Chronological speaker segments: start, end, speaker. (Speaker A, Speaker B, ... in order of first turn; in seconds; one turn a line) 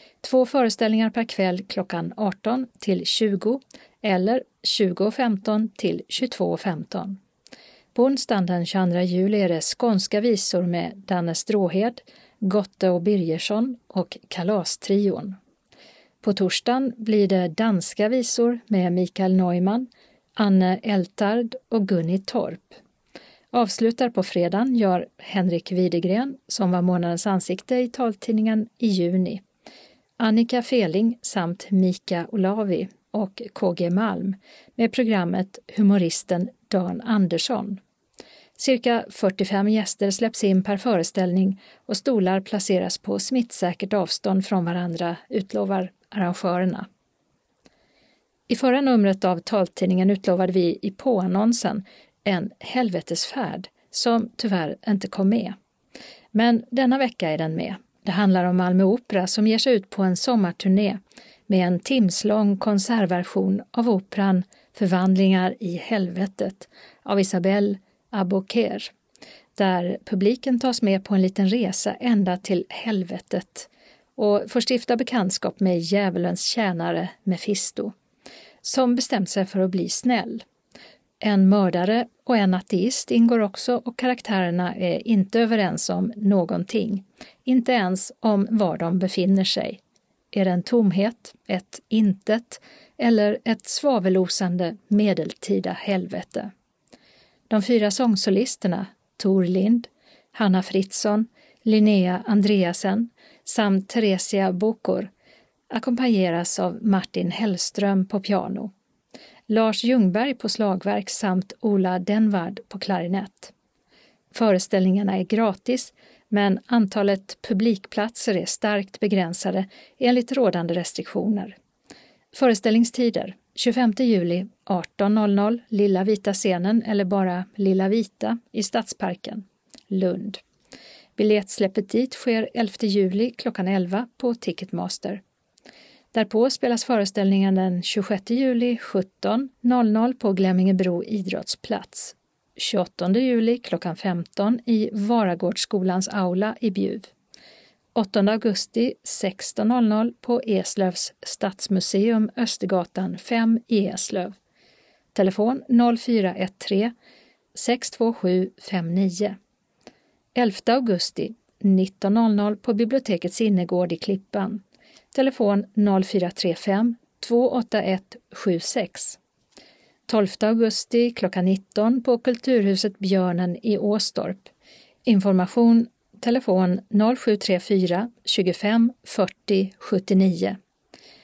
Speaker A: 0.2-7.2
Speaker A: 7.9-15.4
Speaker A: 16.2-22.8
Speaker A: 23.5-29.4
Speaker A: 30.2-37.8
Speaker A: 38.6-46.9
Speaker A: 48.5-55.6
Speaker A: 56.3-68.9
Speaker A: 69.6-77.9
Speaker A: 78.6-80.4
Speaker A: 81.2-89.8
Speaker A: 90.3-96.5
Speaker A: 97.5-105.1
Speaker A: 105.7-108.7
Speaker A: 109.5-113.5
Speaker A: 114.3-121.6
Speaker A: 122.3-130.4
Speaker A: 131.2-135.2
Speaker A: 136.1-147.1
Speaker A: 148.0-154.3
Speaker A: 155.1-156.9
Speaker A: 157.6-159.4
Speaker A: 160.4-164.6
Speaker A: 165.1-169.2
Speaker A: 170.1-174.5
Speaker A: 175.1-180.6